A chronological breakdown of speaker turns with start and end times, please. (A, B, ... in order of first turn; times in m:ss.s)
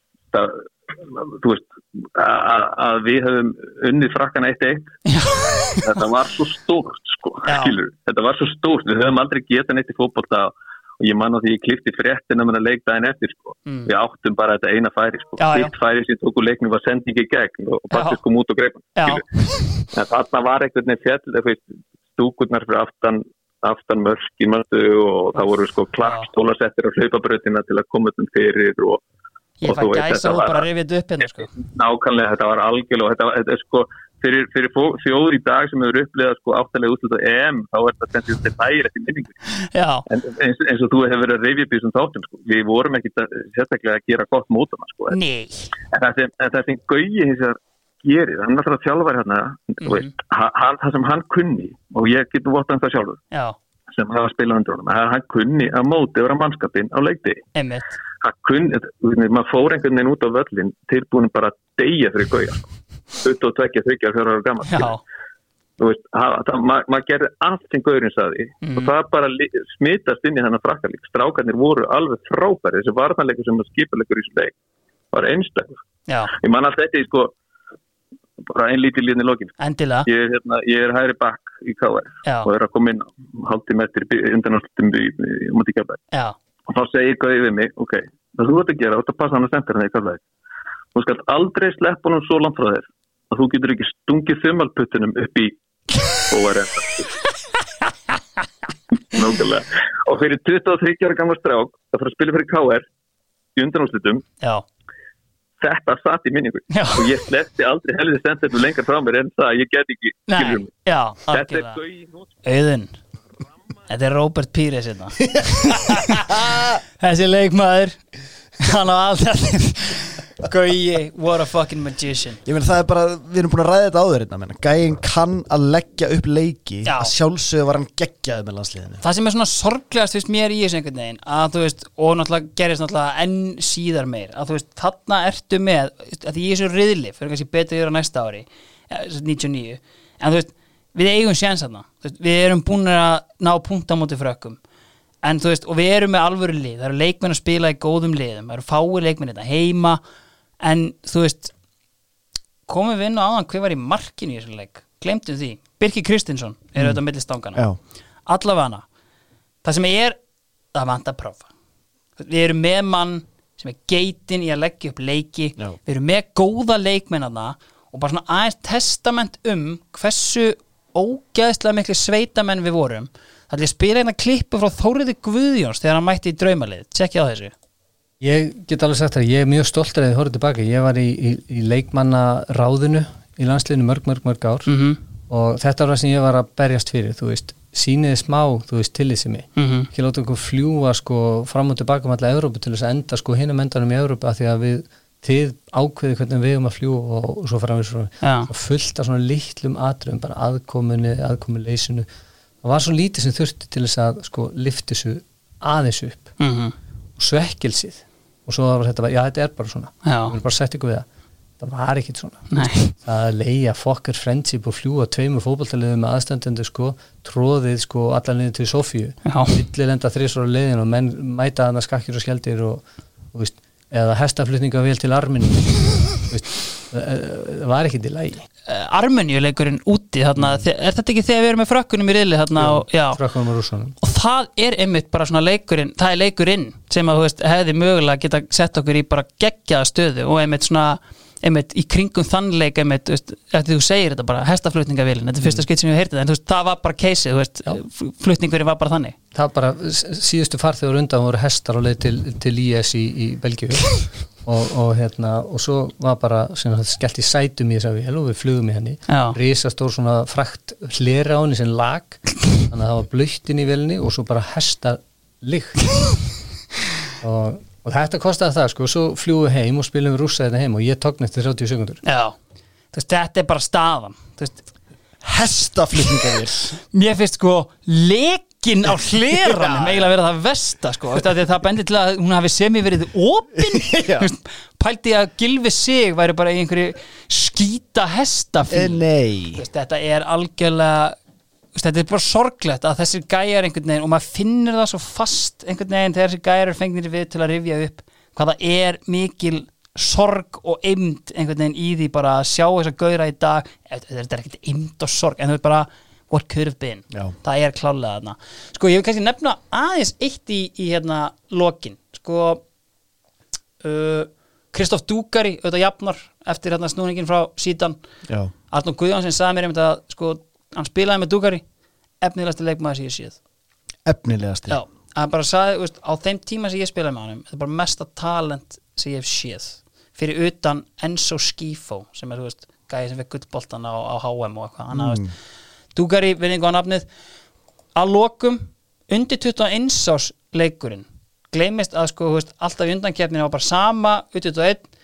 0:00.3-0:05.0 A
0:05.1-0:06.0 B
0:05.7-0:19.2 A
0:07.4-0:07.7 B
0:15.4-0:15.7 B
0:17.9-0:18.2 B
0:18.9-0:19.8 B
0:19.9-0:29.0 A
0:26.0-0:26.3 B
0:29.6-0:31.5 B
0:29.6-0:30.6 A
0:31.4-0:39.3 A
0:39.7-0:40.0 B
0:40.1-0:45.2 A
0:45.1-0:45.7 B
0:45.9-0:53.2 A
0:49.8-0:50.1 B
0:53.3-0:53.6 B
0:53.9-0:57.4 A
0:57.5-0:57.9 B
0:58.2-1:02.7 A
1:03.2-1:05.0 A
1:04.6-1:05.0 B
1:05.8-1:14.5 A
1:08.6-1:08.9 B
1:15.1-1:15.8 A
1:16.1-1:16.3 B
1:16.3-1:17.3 A
1:18.5-1:19.5 A
1:19.6-1:20.1 B
1:20.0-1:26.0 A
1:26.7-1:30.2 A
1:30.9-1:35.6 A
1:36.2-1:37.0 A
1:39.1-1:42.8 A
1:43.6-1:44.2 A
1:45.6-1:50.7 A
1:46.7-1:47.1 B
1:50.3-1:51.8 B
1:51.3-1:52.3 A
1:52.4-1:53.0 B
1:53.9-1:56.4 B
1:55.2-1:56.8 C
1:57.0-1:58.0 B
1:58.6-2:02.4 B
2:02.4-2:09.0 C
2:06.8-2:07.1 B
2:09.0-2:24.6 B
2:25.2-2:30.0 B
2:30.6-2:31.5 B
2:32.7-2:37.6 B
2:38.3-2:38.8 B
2:39.6-2:40.2 B
2:40.7-2:41.5 B
2:42.2-2:57.5 B
2:58.2-3:04.7 D
3:04.6-3:05.0 B
3:05.3-3:22.1 D
3:09.6-3:09.9 B
3:18.2-3:18.5 B
3:22.6-3:26.4 D
3:26.4-3:26.7 B
3:27.2-3:31.0 D
3:30.0-3:30.4 B
3:31.6-3:48.5 D
3:32.5-3:32.9 B
3:39.2-3:39.6 B
3:48.7-3:53.2 B
3:50.4-3:50.6 D
3:52.6-3:53.9 D
3:54.0-4:09.2 B
4:09.3-4:26.2 D
4:19.1-4:19.4 B
4:27.2-4:32.0 D
4:32.0-4:32.3 B
4:32.9-4:34.6 B
4:35.2-4:36.8 C
4:36.9-4:49.0 B
4:39.5-4:40.0 C
4:43.7-4:44.3 C
4:48.7-4:49.6 C
4:49.5-4:51.2 B
4:51.7-5:12.6 B
5:13.8-5:18.0 B
5:18.7-5:21.6 B
5:22.2-5:23.4 B
5:24.0-5:24.8 C
5:24.7-5:35.2 B
5:34.9-5:35.3 C
5:35.9-5:37.1 B
5:38.0-5:44.9 B